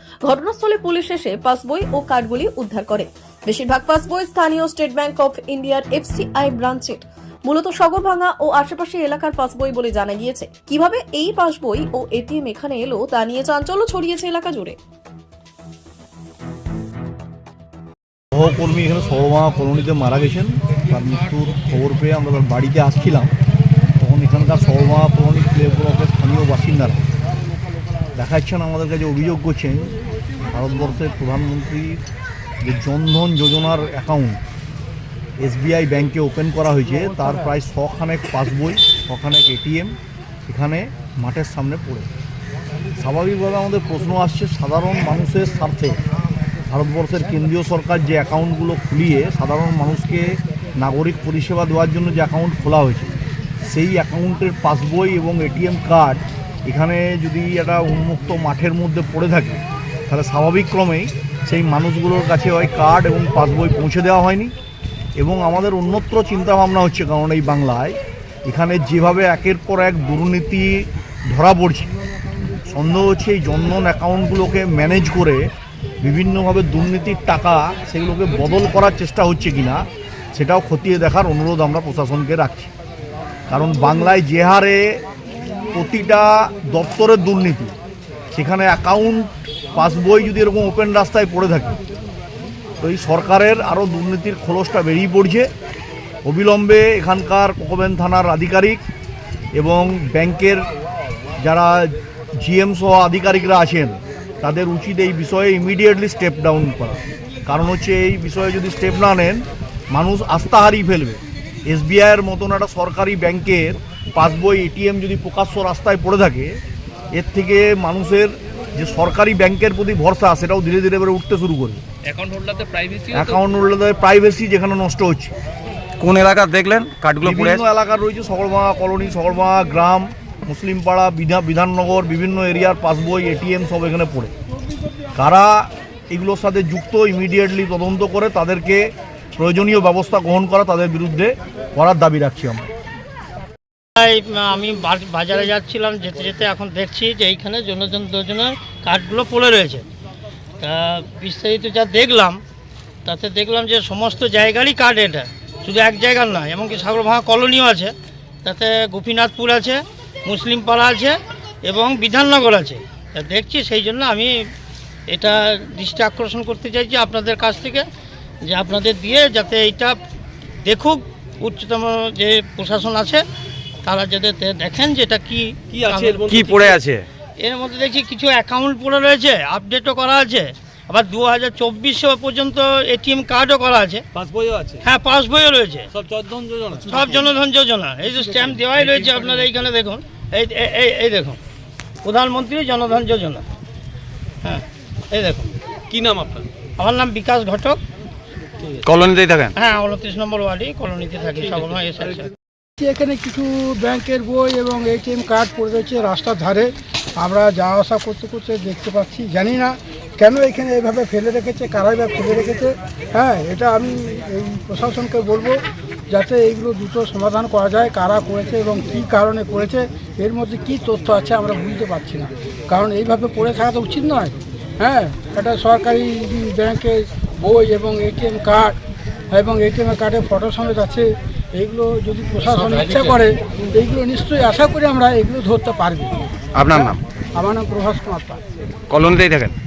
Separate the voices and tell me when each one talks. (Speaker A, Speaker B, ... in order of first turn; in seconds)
Speaker A: 0.3-14.8
Speaker B: 18.3-23.3, 24.0-27.0, 28.2-30.0, 30.5-32.0, 32.6-34.4, 35.4-40.0, 40.5-42.1, 43.0-46.0, 46.7-53.1, 53.6-64.5, 65.2-71.9, 72.7-75.5, 76.0-82.7, 83.5-85.0, 85.7-87.7, 88.3-91.8, 92.8-95.5, 96.2-98.8, 99.5-100.7, 101.4-116.6, 117.1-121.8, 123.1-125.3, 127.2-134.3, 135.2-142.6
Speaker C: 122.1-123.4, 175.7-176.3, 184.2-184.8, 185.9-187.3, 188.5-189.5, 195.9-196.5
Speaker D: 126.0-127.6, 176.2-177.1, 198.8-199.5, 236.6-237.0, 238.9-239.6
Speaker E: 144.0-149.8, 150.6-152.4, 153.1-164.4, 165.1-167.9, 168.5-170.0, 170.7-173.2, 173.8-176.8, 177.4-184.1, 184.8-185.9, 186.9-191.4, 192.0-193.4, 194.4-195.6, 196.8-197.8, 199.6-202.3
Speaker F: 202.8-228.8, 229.3-238.4